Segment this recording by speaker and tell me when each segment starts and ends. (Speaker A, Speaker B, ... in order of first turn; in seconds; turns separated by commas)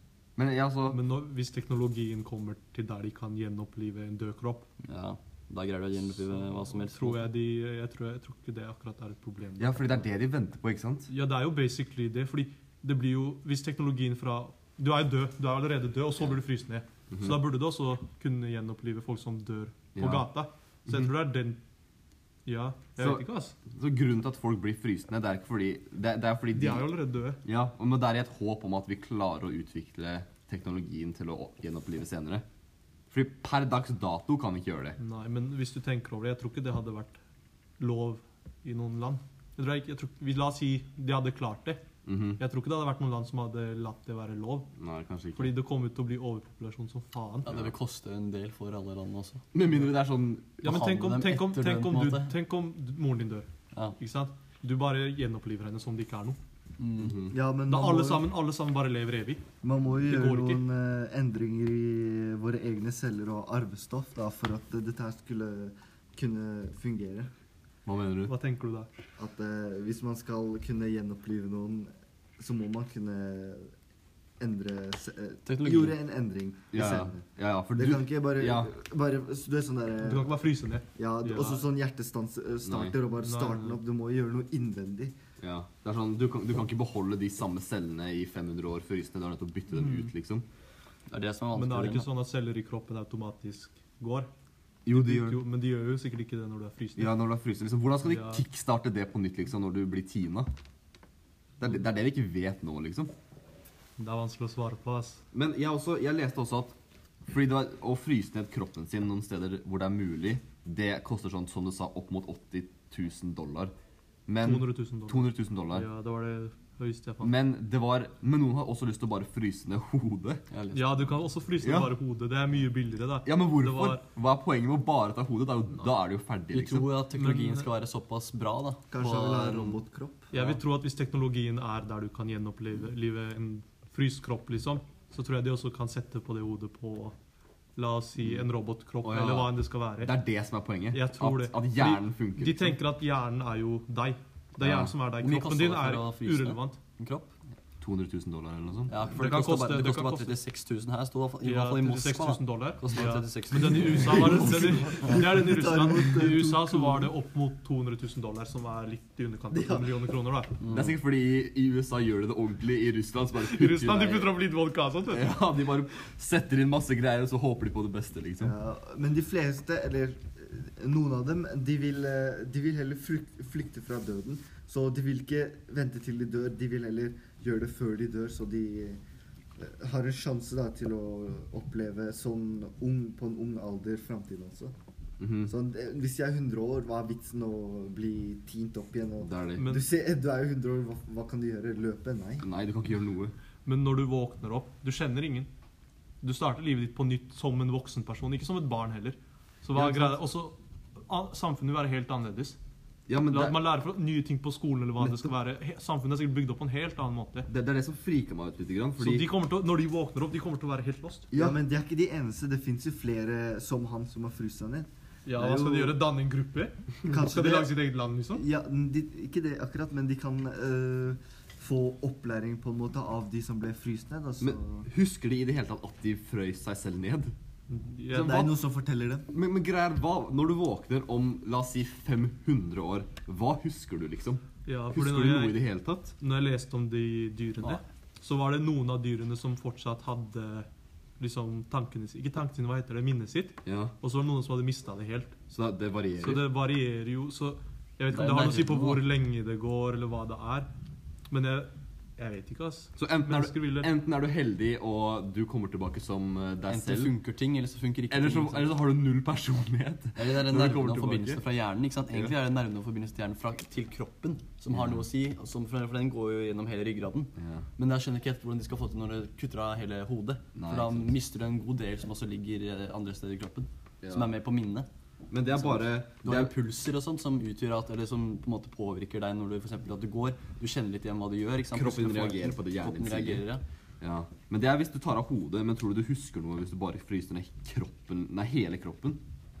Speaker A: 0.4-1.0, Speaker B: 0.9-4.7, Speaker C: 4.8-7.3, Speaker B: 6.6-10.0, Speaker A: 9.6-11.1, Speaker B: 11.1-21.6, Speaker A: 17.1-17.4, Speaker A: 19.9-20.3, Speaker B: 22.4-23.5, Speaker A: 23.0-26.9, Speaker B: 26.5-27.4, Speaker A: 27.4-32.4, Speaker A: 33.1-35.0, Speaker B: 35.0-37.2, Speaker B: 37.8-41.8, Speaker A: 42.0-42.4, Speaker B: 42.4-44.7, Speaker A: 44.8-45.5, Speaker B: 45.3-47.5, Speaker C: 47.4-49.4, Speaker A: 49.5-50.6, Speaker C: 50.6-52.3, Speaker B: 50.6-56.4, Speaker C: 56.8-57.1, Speaker A: 57.0-57.3, Speaker D: 57.3-58.3, Speaker B: 57.7-59.4, Speaker D: 59.6-67.3, Speaker B: 60.1-60.6, Speaker A: 67.8-68.3, Speaker B: 68.3-68.9, Speaker D: 69.2-73.7, Speaker D: 74.4-77.2, Speaker C: 75.5-76.0, Speaker A: 76.7-78.7, Speaker D: 77.7-80.3, Speaker B: 80.0-81.6, Speaker D: 81.0-85.1, Speaker A: 82.6-83.0, Speaker B: 83.2-83.8, Speaker A: 85.4-90.4, Speaker B: 89.7-90.1, Speaker C: 91.1-92.1, Speaker B: 91.5-94.3, Speaker A: 94.8-95.4, Speaker B: 94.9-97.1, Speaker A: 97.0-100.5, Speaker B: 98.0-98.4, Speaker A: 101.6-103.1, Speaker B: 104.0-105.2, Speaker A: 105.3-106.7, Speaker A: 107.3-113.7, Speaker A: 114.3-115.8, Speaker B: 114.4-117.3, Speaker A: 117.2-120.5, Speaker C: 120.5-121.1, Speaker B: 120.7-124.0, Speaker A: 121.6-121.9, Speaker A: 123.2-126.9, Speaker C: 126.5-129.8, Speaker B: 127.1-127.7, Speaker D: 128.9-130.3, Speaker B: 130.3-137.1, Speaker B: 137.8-140.1, Speaker A: 138.2-138.4, Speaker A: 139.0-142.8, Speaker B: 140.9-146.8, Speaker A: 144.6-144.9, Speaker C: 145.2-147.3, Speaker A: 147.8-148.9, Speaker C: 148.9-155.2, Speaker B: 149.2-150.4, Speaker B: 151.4-160.6, Speaker D: 154.6-157.1, Speaker D: 159.5-159.9, Speaker C: 160.6-160.9, Speaker A: 160.7-164.4, Speaker B: 163.4-165.3, Speaker A: 165.1-168.5, Speaker D: 168.4-179.0, Speaker D: 179.6-184.7, Speaker A: 185.2-185.5, Speaker D: 185.4-192.4, Speaker A: 189.2-189.6, Speaker B: 189.6-189.8, Speaker A: 192.4-193.3, Speaker B: 193.7-195.5, Speaker B: 196.2-202.6, Speaker A: 199.7-200.2, Speaker A: 203.1-203.7, Speaker B: 203.3-207.5, Speaker A: 205.0-205.3, Speaker A: 207.5-209.3, Speaker B: 209.0-211.3, Speaker A: 211.3-211.6, Speaker D: 211.3-216.0, Speaker B: 215.2-218.4, Speaker D: 217.1-217.7, Speaker D: 218.3-224.9, Speaker A: 224.4-227.3, Speaker B: 227.7-228.5, Speaker D: 228.1-229.3, Speaker A: 229.3-236.2, Speaker B: 234.6-235.6, Speaker B: 236.2-240.7, Speaker B: 241.2-245.4, Speaker A: 243.6-243.9, Speaker A: 245.5-246.5, Speaker B: 246.2-250.7, Speaker C: 248.1-249.0, Speaker B: 251.3-253.9, Speaker A: 253.0-257.1, Speaker C: 256.7-258.8, Speaker A: 258.1-261.4, Speaker C: 260.1-274.9, Speaker A: 264.7-265.0, Speaker A: 267.4-267.6, Speaker A: 270.6-271.1, Speaker A: 274.0-274.3, Speaker A: 275.3-276.5, Speaker C: 275.5-283.6, Speaker A: 281.7-283.4, Speaker A: 284.0-289.2